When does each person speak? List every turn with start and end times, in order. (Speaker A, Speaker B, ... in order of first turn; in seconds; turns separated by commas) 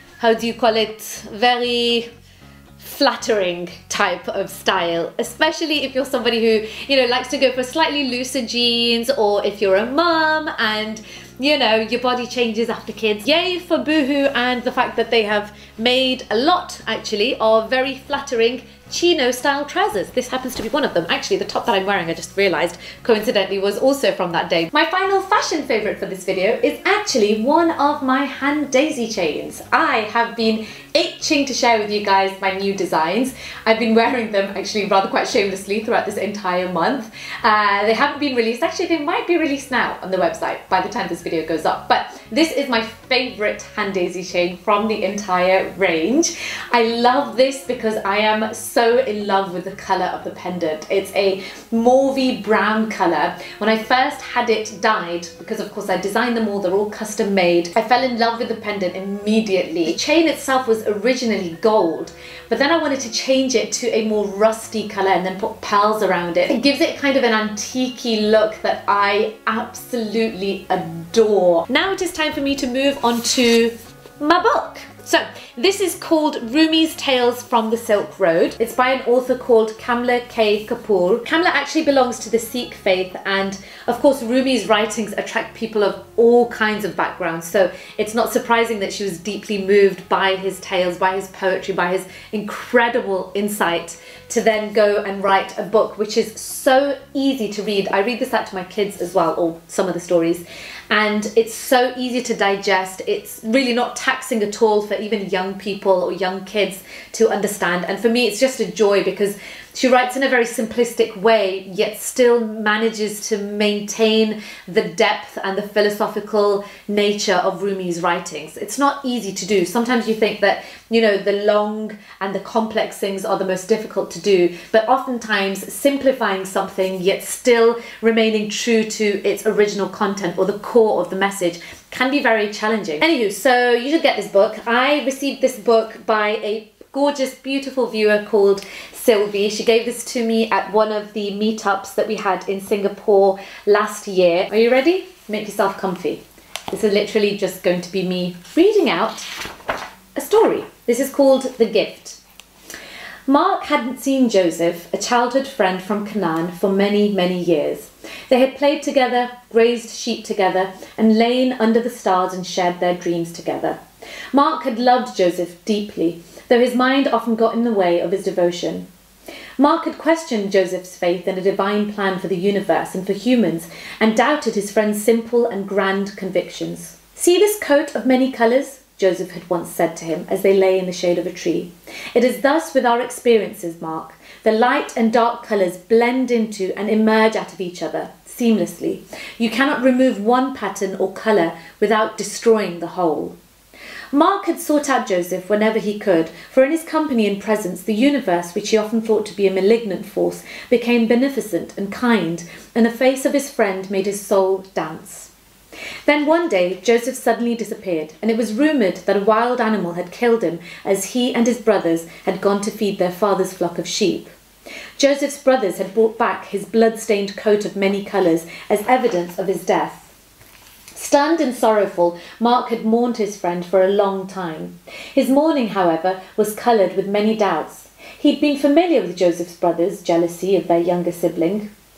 Speaker A: 0.2-2.1, Speaker A: 2.8-149.3, Speaker A: 150.2-152.2, Speaker A: 153.3-163.8, Speaker A: 164.3-168.9, Speaker A: 169.6-193.3, Speaker A: 194.1-205.3, Speaker A: 206.1-214.3, Speaker A: 215.0-220.1, Speaker A: 220.9-231.7